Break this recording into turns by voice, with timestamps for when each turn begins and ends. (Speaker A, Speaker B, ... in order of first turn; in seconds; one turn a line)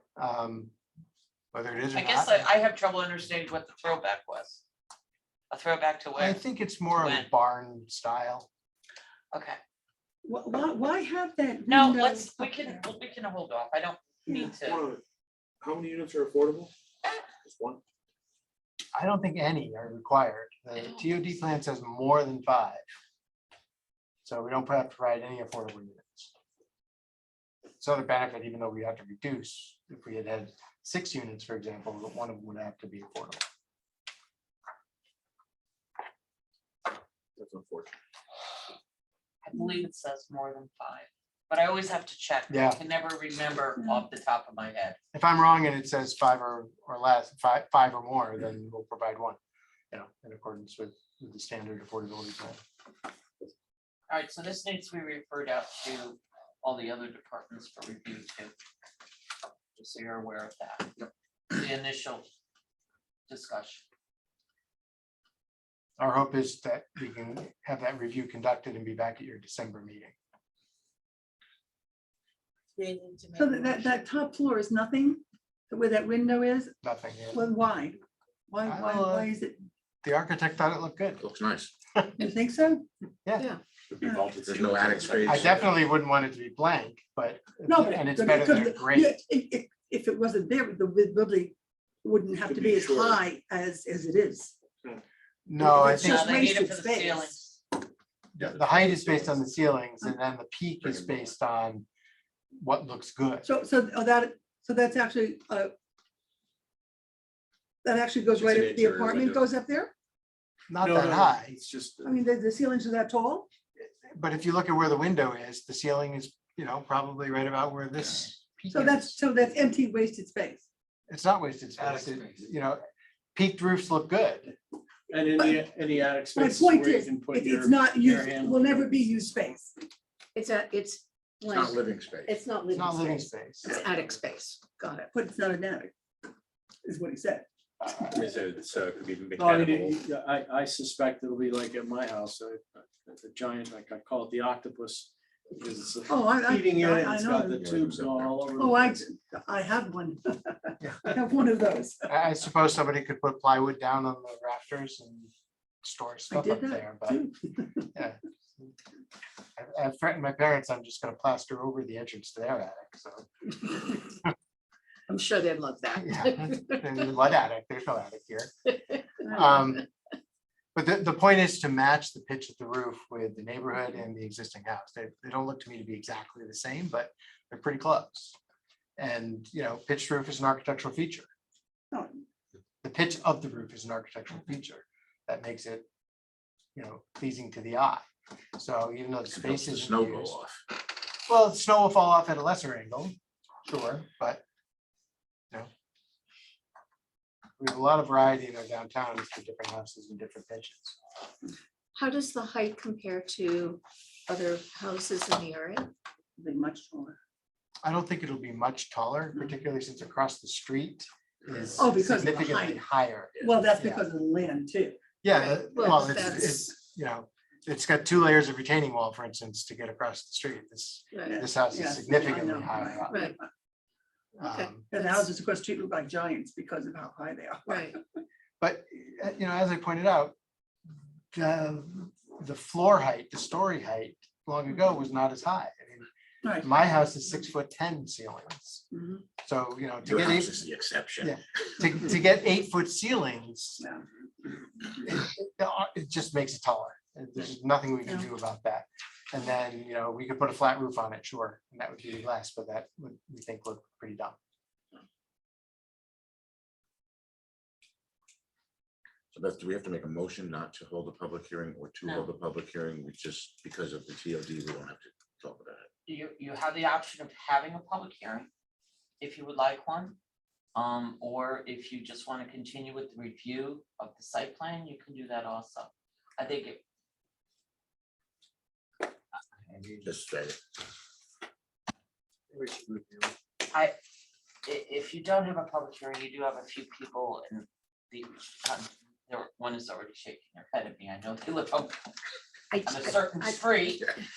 Speaker A: 0.2-0.7
Speaker A: 1.5-2.5
Speaker B: 1.9-4.6
Speaker B: 5.5-7.3
Speaker A: 6.1-8.5
Speaker B: 9.3-9.6
Speaker C: 10.2-12.8
Speaker B: 11.6-14.8
Speaker D: 14.7-15.0
Speaker D: 15.6-16.7
Speaker D: 17.5-17.8
Speaker A: 18.9-22.8
Speaker B: 20.7-21.1
Speaker A: 24.2-26.3
Speaker A: 27.8-33.4
Speaker D: 37.4-37.9
Speaker B: 39.4-45.0
Speaker A: 42.5-42.8
Speaker A: 45.1-49.4
Speaker A: 49.9-52.6
Speaker B: 54.1-58.5
Speaker B: 59.7-60.9
Speaker B: 61.5-62.2
Speaker B: 63.3-63.8
Speaker A: 66.0-70.2
Speaker E: 72.8-73.6
Speaker C: 73.3-76.7
Speaker A: 76.8-77.4
Speaker C: 77.3-79.6
Speaker A: 78.7-79.3
Speaker A: 80.0-81.2
Speaker F: 81.2-81.7
Speaker A: 82.0-82.2
Speaker C: 82.2-82.8
Speaker A: 83.2-83.5
Speaker D: 84.0-85.5
Speaker C: 84.0-84.4
Speaker F: 84.4-85.7
Speaker A: 85.2-89.2
Speaker C: 87.7-94.5
Speaker D: 92.5-93.1
Speaker A: 95.5-96.5
Speaker C: 95.6-97.4
Speaker B: 95.8-97.5
Speaker A: 98.3-101.8
Speaker F: 98.4-99.3
Speaker F: 100.8-101.2
Speaker A: 102.5-103.5
Speaker C: 103.4-105.7
Speaker C: 107.8-109.9
Speaker G: 108.3-109.4
Speaker A: 110.7-111.6
Speaker G: 110.8-112.2
Speaker C: 112.0-113.5
Speaker A: 113.8-119.2
Speaker C: 118.7-120.7
Speaker A: 121.1-122.8
Speaker A: 123.3-124.5
Speaker G: 125.1-128.7
Speaker C: 126.3-129.7
Speaker E: 130.3-135.1
Speaker F: 131.5-132.4
Speaker A: 132.7-133.8
Speaker C: 135.1-135.9
Speaker C: 136.8-137.5
Speaker D: 138.2-140.0
Speaker F: 138.7-139.7
Speaker G: 139.3-149.0
Speaker C: 146.1-147.6
Speaker F: 147.6-148.4
Speaker C: 148.6-152.1
Speaker A: 150.8-151.1
Speaker A: 152.1-155.3
Speaker A: 155.8-157.2
Speaker C: 156.3-157.9
Speaker A: 157.9-158.7
Speaker A: 159.6-164.0
Speaker E: 165.1-167.1
Speaker A: 165.9-169.9
Speaker A: 170.7-178.3
Speaker A: 179.0-181.3
Speaker C: 181.9-182.2
Speaker A: 182.8-185.8
Speaker A: 186.7-188.0
Speaker A: 188.6-190.4
Speaker F: 189.3-190.6
Speaker A: 191.3-194.4
Speaker A: 197.6-200.9
Speaker E: 201.9-205.9
Speaker C: 206.4-207.2
Speaker A: 207.8-214.0
Speaker C: 211.8-212.8
Speaker C: 213.4-215.0
Speaker A: 215.2-223.3
Speaker E: 215.3-216.7
Speaker E: 221.1-221.4
Speaker C: 221.2-223.4
Speaker E: 223.1-223.3
Speaker A: 224.4-224.9
Speaker E: 224.4-225.2
Speaker C: 224.9-228.0
Speaker E: 227.7-228.0
Speaker A: 228.6-230.3
Speaker A: 231.3-236.1
Speaker C: 236.4-236.7
Speaker A: 236.6-238.8
Speaker C: 238.9-239.2
Speaker A: 239.4-240.6
Speaker F: 240.0-241.4
Speaker A: 241.2-243.8
Speaker A: 245.0-254.4
Speaker F: 259.3-265.9
Speaker B: 262.0-262.3
Speaker B: 266.1-268.5
Speaker B: 269.2-270.1
Speaker B: 270.7-276.8
Speaker B: 279.7-280.0
Speaker F: 280.0-280.6
Speaker B: 283.7-283.9
Speaker B: 284.6-292.0
Speaker E: 292.7-294.0
Speaker B: 292.8-294.0